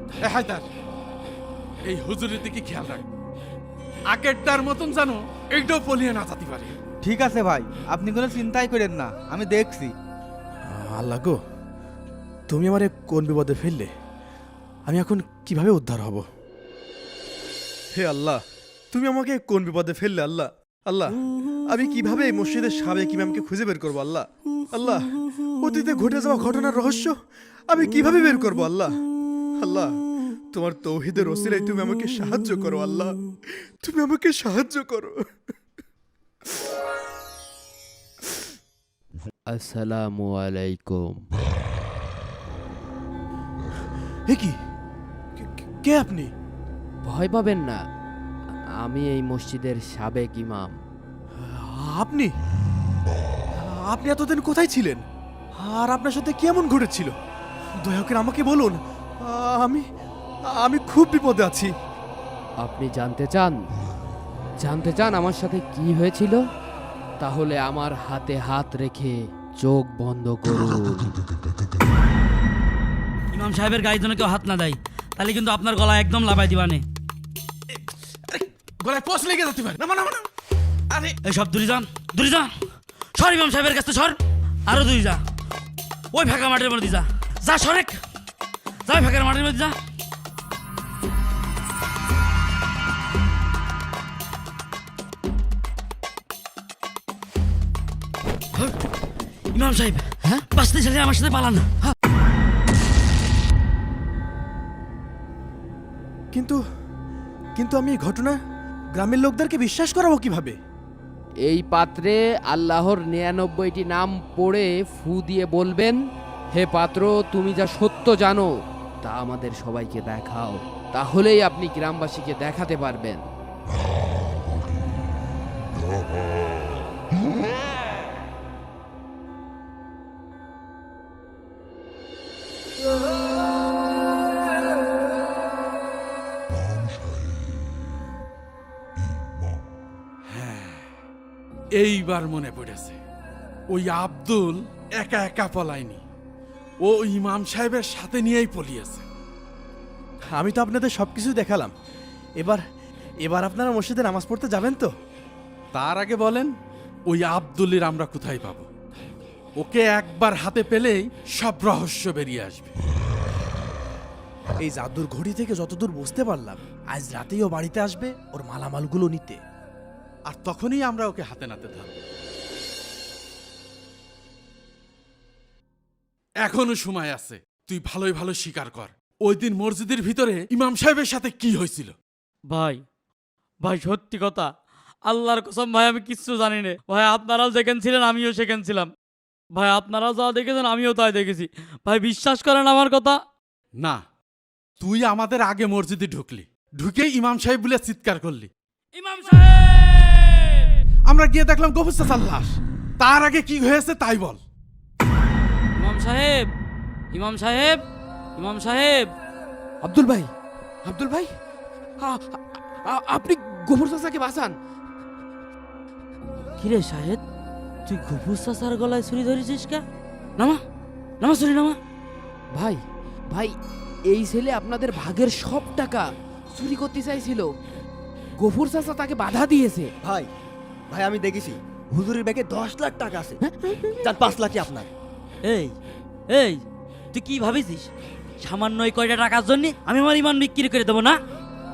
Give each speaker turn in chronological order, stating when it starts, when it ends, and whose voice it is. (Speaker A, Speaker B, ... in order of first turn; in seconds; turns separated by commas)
Speaker A: 0.3-0.7, Speaker A: 1.9-3.0, Speaker A: 4.1-6.8, Speaker B: 7.0-9.9, Speaker C: 10.6-11.4, Speaker C: 12.5-13.9, Speaker C: 14.9-16.2, Speaker C: 17.9-18.4, Speaker C: 18.9-21.2, Speaker C: 21.7-27.2, Speaker C: 27.7-29.0, Speaker C: 29.6-30.0, Speaker C: 30.5-35.3, Speaker D: 39.5-41.2, Speaker C: 44.3-44.5, Speaker C: 45.4-46.3, Speaker D: 47.0-47.8, Speaker D: 48.8-50.8, Speaker C: 51.4-52.3, Speaker C: 53.5-55.0, Speaker C: 55.6-57.1, Speaker C: 57.8-59.8, Speaker C: 60.5-61.7, Speaker D: 62.6-63.7, Speaker D: 64.6-66.4, Speaker D: 67.2-71.2, Speaker E: 73.3-76.8, Speaker A: 78.3-80.3, Speaker E: 81.2-82.5, Speaker E: 83.2-85.2, Speaker E: 86.1-88.0, Speaker E: 88.9-89.8, Speaker E: 99.5-101.7, Speaker C: 106.3-106.6, Speaker C: 107.6-108.4, Speaker C: 109.0-110.6, Speaker D: 111.5-116.0, Speaker D: 116.5-118.5, Speaker D: 119.0-123.2, Speaker A: 140.3-140.9, Speaker A: 141.8-143.0, Speaker A: 143.7-146.0, Speaker A: 146.8-149.0, Speaker C: 150.3-151.7, Speaker C: 153.2-154.9, Speaker A: 155.7-156.5, Speaker A: 157.1-158.7, Speaker A: 159.6-162.7, Speaker C: 164.6-169.4, Speaker A: 170.3-172.0, Speaker A: 176.4-181.9, Speaker E: 182.5-182.8, Speaker E: 183.6-184.5, Speaker E: 185.1-188.9, Speaker E: 189.5-193.2, Speaker A: 194.8-198.5, Speaker E: 198.9-200.7, Speaker A: 201.1-204.4, Speaker E: 205.8-206.5, Speaker E: 207.1-207.8, Speaker E: 208.4-209.1, Speaker D: 209.8-210.3, Speaker D: 210.8-211.3, Speaker D: 212.0-214.6, Speaker E: 216.6-217.2, Speaker E: 217.9-219.8, Speaker E: 221.2-221.8, Speaker D: 222.6-222.8, Speaker D: 224.1-227.5, Speaker D: 228.4-229.9, Speaker F: 230.0-230.3, Speaker F: 230.9-233.4, Speaker D: 233.4-234.0, Speaker F: 234.0-234.9, Speaker E: 235.4-235.8, Speaker E: 236.3-237.9, Speaker E: 238.4-241.2